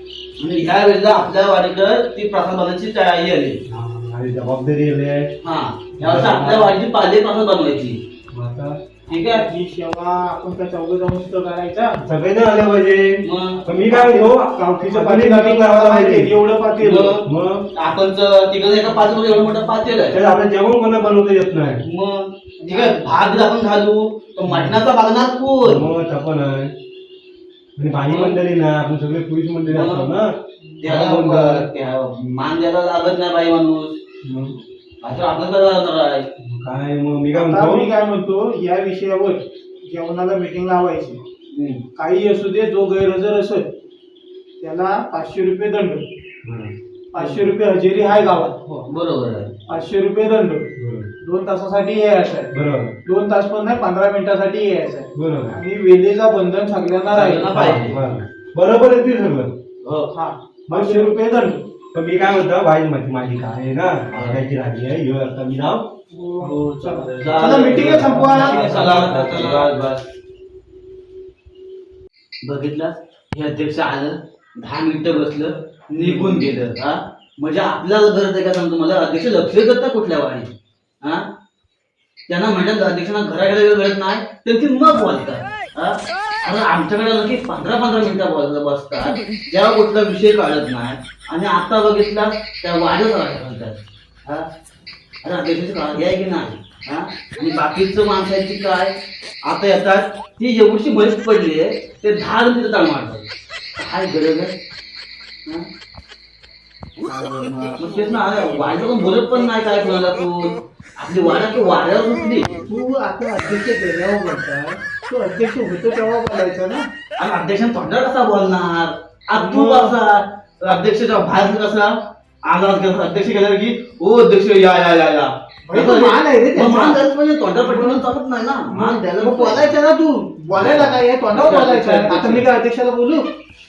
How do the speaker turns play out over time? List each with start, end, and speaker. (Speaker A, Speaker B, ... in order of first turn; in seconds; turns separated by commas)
Speaker A: 0.4-3.6, Speaker B: 3.7-5.3, Speaker A: 5.4-8.0, Speaker B: 6.0-6.8, Speaker B: 8.3-8.8, Speaker A: 9.1-9.4, Speaker C: 9.3-12.0, Speaker B: 12.0-16.3, Speaker A: 13.2-13.6, Speaker C: 13.9-17.2, Speaker A: 16.8-17.2, Speaker B: 17.2-17.7, Speaker A: 17.8-20.2, Speaker C: 18.9-19.7, Speaker B: 20.1-21.8, Speaker A: 21.8-25.8, Speaker C: 22.6-23.4, Speaker B: 24.5-24.8, Speaker B: 25.6-26.7, Speaker B: 27.8-31.7, Speaker A: 28.1-28.4, Speaker A: 29.7-30.1, Speaker A: 30.8-33.9, Speaker B: 34.2-34.6, Speaker A: 35.0-36.2, Speaker B: 36.4-37.9, Speaker C: 37.3-41.2, Speaker A: 41.5-41.8, Speaker C: 42.0-43.7, Speaker C: 44.6-46.0, Speaker B: 46.4-46.7, Speaker C: 47.1-48.6, Speaker A: 47.2-47.5, Speaker A: 48.7-49.5, Speaker C: 49.7-50.6, Speaker B: 50.8-51.1, Speaker C: 51.2-52.5, Speaker B: 52.5-53.0, Speaker C: 53.0-57.5, Speaker B: 55.1-55.5, Speaker A: 57.1-58.0, Speaker B: 57.5-59.5, Speaker A: 59.8-60.1, Speaker C: 60.1-61.6, Speaker B: 60.7-61.1, Speaker B: 61.9-65.8, Speaker A: 64.1-64.4, Speaker C: 66.1-69.3, Speaker A: 66.4-70.0, Speaker B: 67.7-69.7, Speaker A: 72.4-80.5, Speaker A: 82.3-94.5, Speaker A: 95.2-98.9, Speaker A: 99.4-103.2, Speaker A: 103.8-104.5, Speaker C: 107.0-108.2, Speaker A: 107.8-112.6, Speaker C: 111.1-111.7, Speaker C: 112.7-116.8, Speaker A: 117.2-121.9, Speaker C: 119.3-120.0, Speaker A: 122.4-129.7, Speaker C: 125.7-127.0, Speaker C: 127.6-128.0, Speaker C: 128.7-133.3, Speaker A: 130.5-132.4